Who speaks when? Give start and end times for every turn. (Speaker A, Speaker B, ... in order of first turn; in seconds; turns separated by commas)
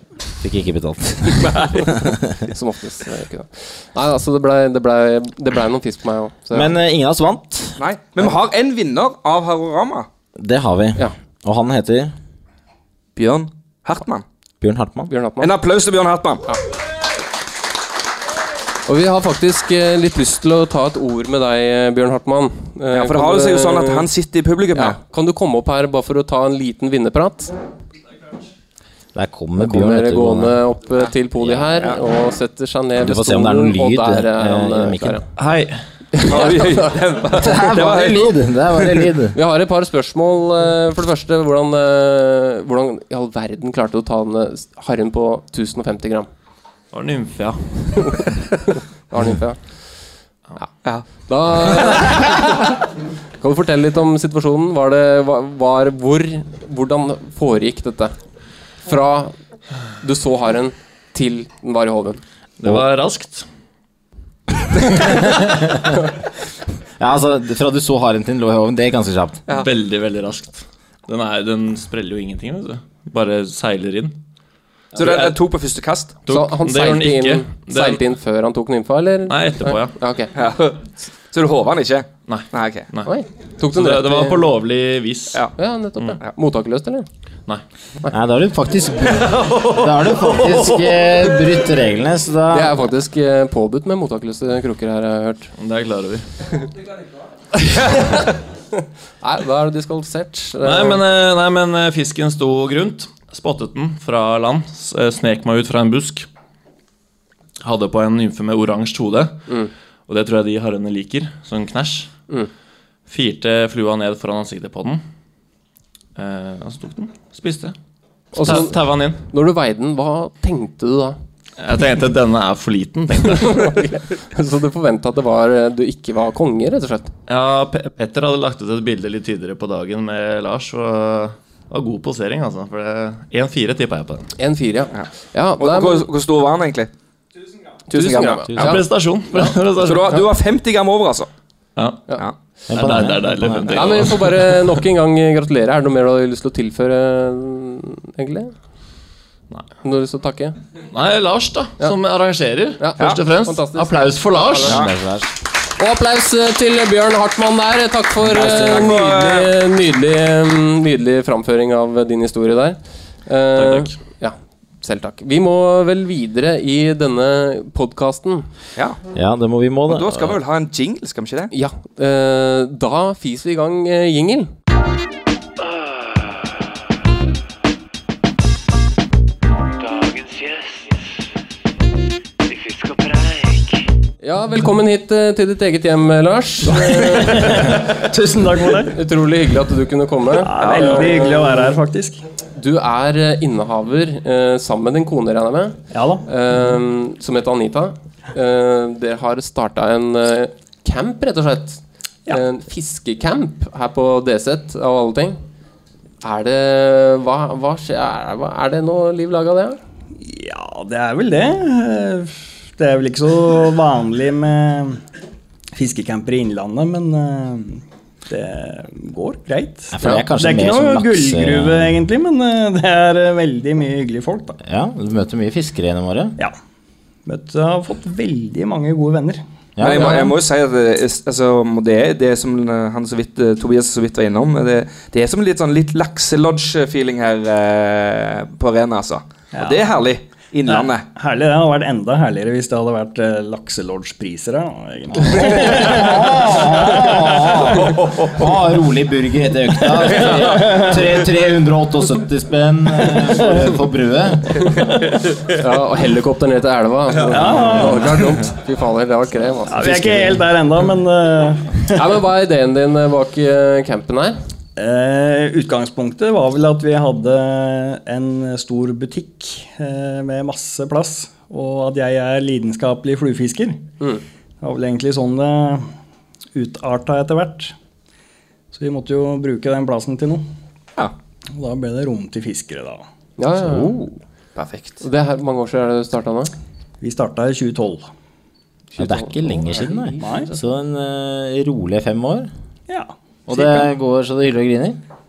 Speaker A: 0.3-2.4, Speaker B: 2.4-6.7, Speaker A: 6.5-8.3, Speaker C: 7.8-10.1, Speaker A: 10.4-12.1, Speaker C: 13.2-14.2, Speaker A: 14.6-15.1, Speaker B: 15.1-15.5, Speaker C: 15.4-16.4, Speaker B: 18.9-24.1, Speaker C: 22.9-25.0, Speaker B: 24.7-27.5, Speaker A: 29.1-30.6, Speaker B: 29.6-35.2, Speaker A: 33.0-35.2, Speaker D: 35.4-35.8, Speaker B: 36.1-36.7, Speaker C: 36.2-39.1, Speaker A: 37.4-39.4, Speaker B: 39.3-46.3, Speaker D: 46.9-48.0, Speaker B: 48.0-48.2, Speaker B: 49.1-49.6, Speaker B: 51.3-52.7, Speaker B: 53.4-58.1, Speaker B: 58.8-59.4, Speaker B: 60.0-62.2, Speaker D: 62.6-63.5, Speaker A: 64.8-65.6, Speaker A: 67.0-69.4, Speaker D: 69.5-74.2, Speaker D: 74.9-75.3, Speaker C: 75.0-76.2, Speaker D: 76.2-78.0, Speaker B: 76.3-80.3, Speaker D: 79.3-80.0, Speaker C: 80.3-80.8, Speaker C: 81.3-82.9, Speaker D: 82.3-83.1, Speaker B: 83.0-84.5, Speaker D: 83.7-86.2, Speaker B: 85.6-87.1, Speaker A: 88.1-92.8, Speaker D: 89.3-90.6, Speaker B: 92.5-95.5, Speaker D: 95.6-96.2, Speaker B: 98.8-101.0, Speaker D: 100.6-106.3, Speaker D: 107.6-109.4, Speaker D: 110.1-112.1, Speaker D: 113.1-115.0, Speaker D: 116.1-117.7, Speaker D: 118.3-119.2, Speaker B: 118.3-121.2, Speaker D: 121.6-123.7, Speaker B: 123.3-127.1, Speaker D: 127.3-134.3, Speaker B: 134.4-136.1, Speaker C: 135.6-136.9, Speaker C: 137.9-138.8, Speaker B: 137.9-138.8, Speaker D: 138.6-140.2, Speaker C: 139.8-141.3, Speaker D: 141.8-142.0, Speaker A: 142.7-144.0, Speaker D: 142.7-144.8, Speaker B: 143.7-148.5, Speaker B: 149.8-150.6, Speaker D: 150.9-154.8, Speaker B: 152.8-154.8, Speaker A: 154.6-155.3, Speaker B: 155.8-168.5, Speaker C: 158.3-159.5, Speaker A: 158.3-158.9, Speaker D: 163.5-163.9, Speaker A: 169.1-170.4, Speaker C: 169.9-171.5, Speaker B: 171.5-174.5, Speaker E: 179.8-180.7, Speaker E: 182.5-183.7, Speaker B: 184.2-187.8, Speaker F: 186.9-189.0, Speaker B: 188.9-191.6, Speaker F: 190.3-192.2, Speaker C: 190.6-191.2, Speaker B: 192.6-205.4, Speaker F: 195.9-196.2, Speaker B: 206.2-209.8, Speaker F: 210.2-215.0, Speaker F: 215.7-224.6, Speaker A: 219.9-222.0, Speaker A: 224.6-226.3, Speaker F: 227.2-229.4, Speaker A: 229.8-230.3, Speaker C: 229.8-241.0, Speaker B: 229.9-230.3, Speaker F: 239.5-239.9, Speaker F: 240.7-248.1, Speaker A: 245.2-254.7, Speaker F: 250.0-251.0, Speaker B: 255.4-260.4, Speaker F: 257.2-258.4, Speaker F: 259.7-262.0, Speaker B: 261.9-264.4, Speaker F: 264.8-273.8, Speaker F: 274.6-275.9, Speaker F: 276.5-277.7, Speaker F: 278.7-280.4, Speaker F: 281.5-283.0, Speaker B: 283.4-284.2, Speaker A: 283.6-283.9, Speaker C: 284.6-285.0, Speaker B: 285.0-286.5, Speaker F: 287.0-288.1, Speaker B: 288.9-290.6, Speaker A: 289.0-292.5, Speaker F: 290.2-290.5, Speaker F: 292.9-293.9, Speaker A: 293.5-295.0